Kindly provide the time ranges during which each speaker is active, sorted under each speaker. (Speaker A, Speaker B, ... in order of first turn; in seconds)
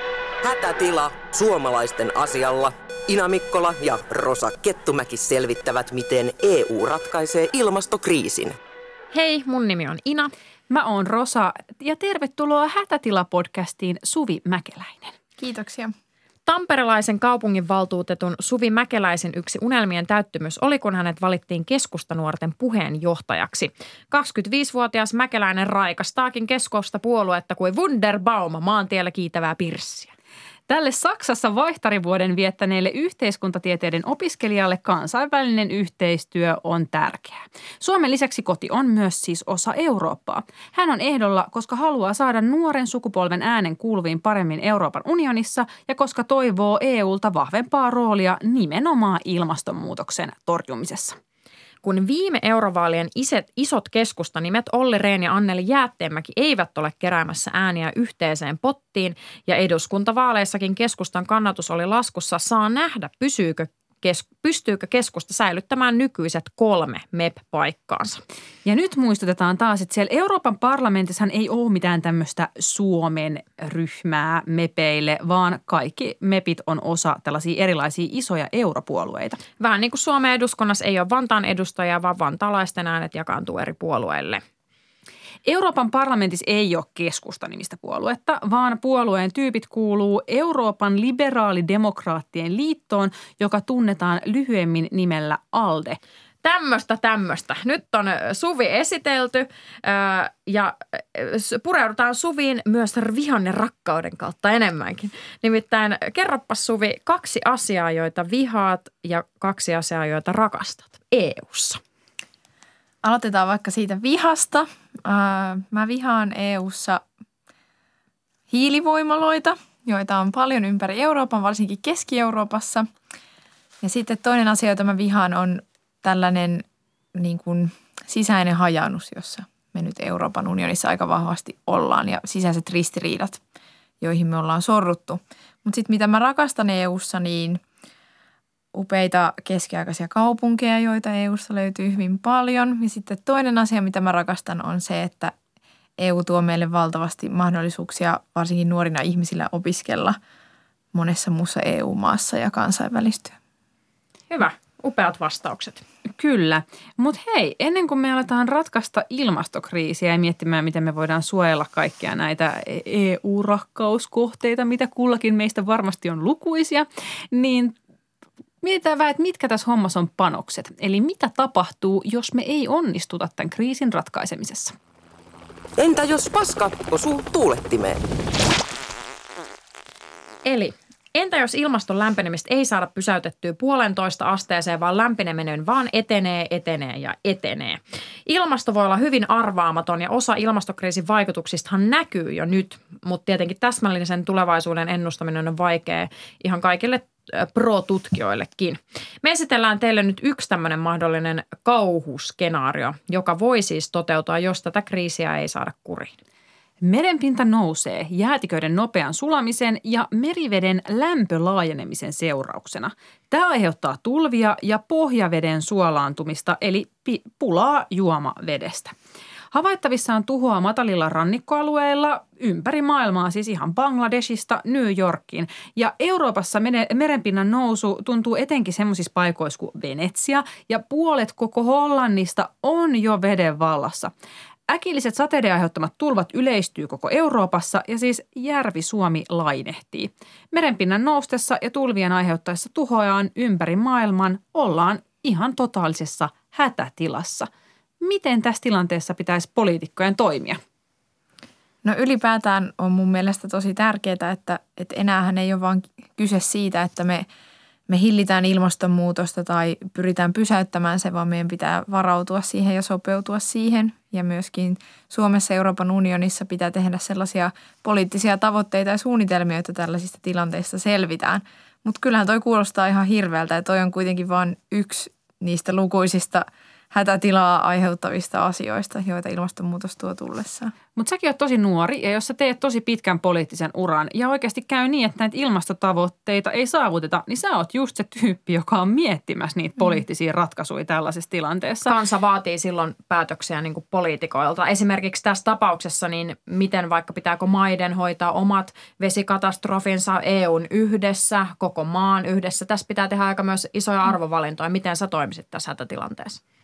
Speaker A: 0.4-8.6, 175.8-178.0
Speaker B: 9.1-10.3, 16.5-30.1, 51.8-68.2, 79.6-84.4, 96.4-111.8, 154.3-155.8, 180.5-206.2, 291.9-306.4
Speaker C: 10.7-15.2, 30.7-51.2, 68.7-79.4, 85.5-96.0, 156.1-167.8, 168.6-174.7, 206.8-218.9, 219.5-234.1, 234.7-247.5, 248.0-250.6, 281.0-291.9
Speaker D: 15.4-15.9, 113.0-117.0, 118.5-122.9, 123.8-126.6, 127.2-133.4, 134.0-137.6, 138.8-145.3, 146.0-150.2, 150.9-153.3, 251.8-257.3, 257.9-280.7